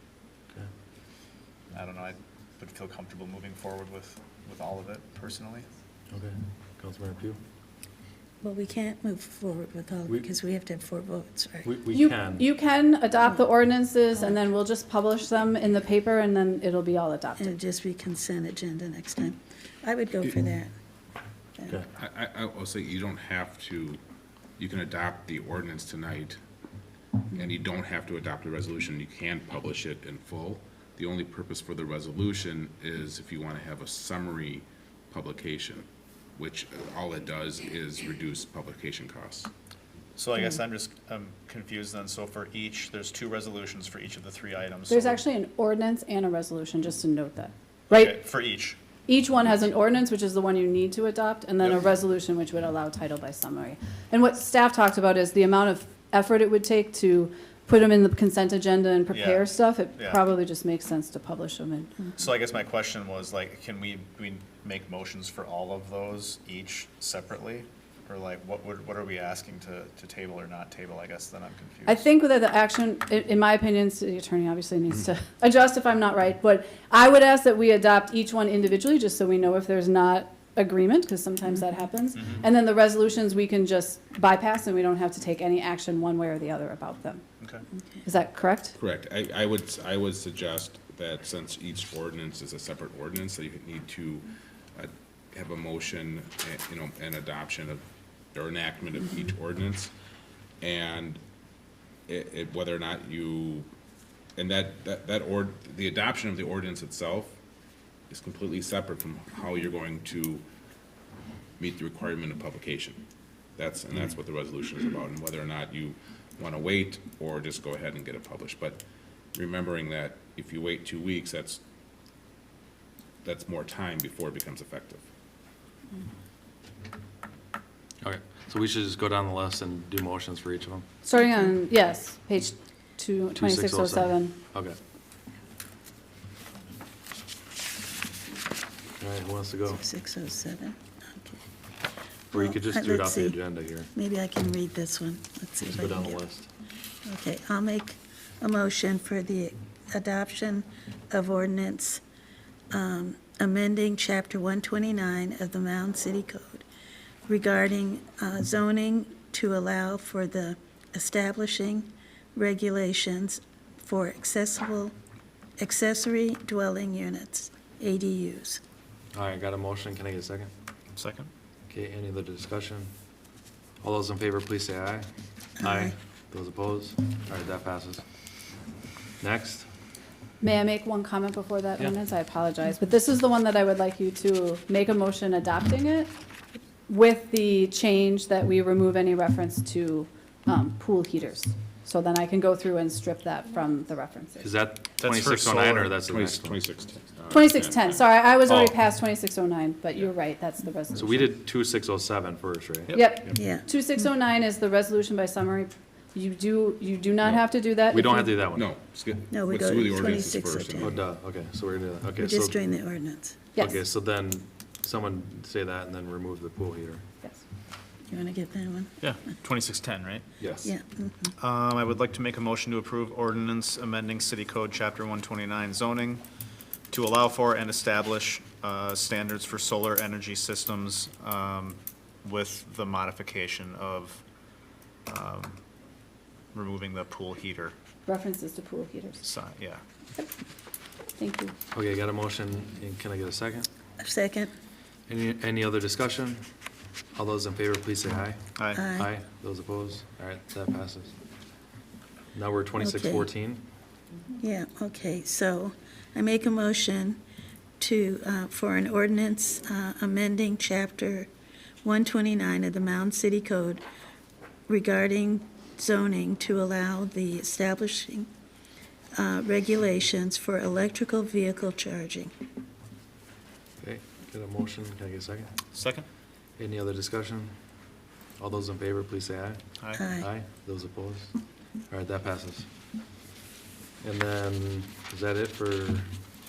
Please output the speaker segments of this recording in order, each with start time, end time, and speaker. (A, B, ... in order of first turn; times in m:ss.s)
0:01.7-0:05.6 A
0:06.1-0:07.4 B
0:08.4-0:11.7 C
0:11.6-0:12.5 B
0:11.9-0:17.5 D
0:17.4-0:20.7 C
0:21.6-0:21.8 C
0:22.0-0:24.0 E
0:24.6-0:26.4 E
0:27.3-0:39.5 E
0:40.2-0:45.2 A
0:44.9-0:48.2 D
0:47.9-0:48.8 A
0:49.1-1:01.9 D
0:51.6-0:51.9 A
0:59.1-0:59.4 A
1:02.2-1:12.0 A
1:11.8-1:27.2 D
1:28.0-1:28.8 D
1:28.8-1:39.9 E
1:40.6-1:41.2 E
1:42.1-1:43.7 E
1:44.4-1:47.3 E
1:48.1-1:50.4 E
1:51.6-1:53.0 E
1:53.6-1:58.8 E
1:59.3-2:01.6 E
2:03.2-2:05.0 E
2:08.0-2:10.9 B
2:11.0-2:14.3 D
2:13.3-2:14.8 B
2:19.0-2:19.8 B
2:19.7-2:21.4 C
2:22.3-2:23.9 B
2:22.3-2:23.4 C
2:23.9-2:26.2 C
2:25.7-2:26.5 B
2:27.0-2:32.0 C
2:32.7-2:36.6 C
2:37.3-2:44.9 C
2:45.6-2:48.6 C
2:49.1-2:50.5 B
2:51.0-2:51.3 A
2:51.7-2:52.9 B
2:53.8-2:55.1 B
2:55.6-2:58.0 B
2:55.6-2:55.9 C
2:59.2-2:59.7 B
3:00.4-3:06.1 D
3:06.9-3:14.5 D
3:14.4-3:16.6 B
3:15.0-3:16.0 A
3:16.1-3:18.0 E
3:17.3-3:21.3 D
3:18.4-3:18.8 B
3:20.9-3:23.0 B
3:22.9-3:23.4 A
3:22.9-3:28.4 D
3:23.4-3:23.6 C
3:27.9-3:28.7 B
3:28.5-3:30.9 E
3:29.3-3:31.0 C
3:30.8-3:32.6 B
3:32.2-3:33.4 C
3:33.6-3:37.0 B
3:38.1-3:39.0 C
3:39.0-3:40.2 A
3:40.4-3:40.7 B
3:40.6-3:41.2 C
3:41.4-3:46.2 A
3:46.9-3:54.2 A
3:55.1-3:55.6 A
3:56.5-3:57.7 A
3:58.0-3:59.2 D
3:59.2-3:59.8 A
4:01.2-4:01.6 D
4:01.7-4:03.7 B
4:04.0-4:04.5 C
4:05.1-4:06.4 B
4:07.1-4:11.1 B
4:08.6-4:08.8 A
4:08.7-4:09.1 C
4:12.3-4:13.6 B
4:12.8-4:13.3 C
4:14.4-4:17.2 C
4:17.8-4:21.3 C
4:21.8-4:23.8 C
4:24.7-4:28.3 C
4:29.1-4:32.3 C
4:33.8-4:35.6 B
4:35.7-4:36.0 A
4:36.6-4:37.6 B
4:38.4-4:41.3 B
4:39.8-4:40.0 A
4:39.9-4:40.3 C
4:41.9-4:42.7 B
4:44.0-4:46.1 B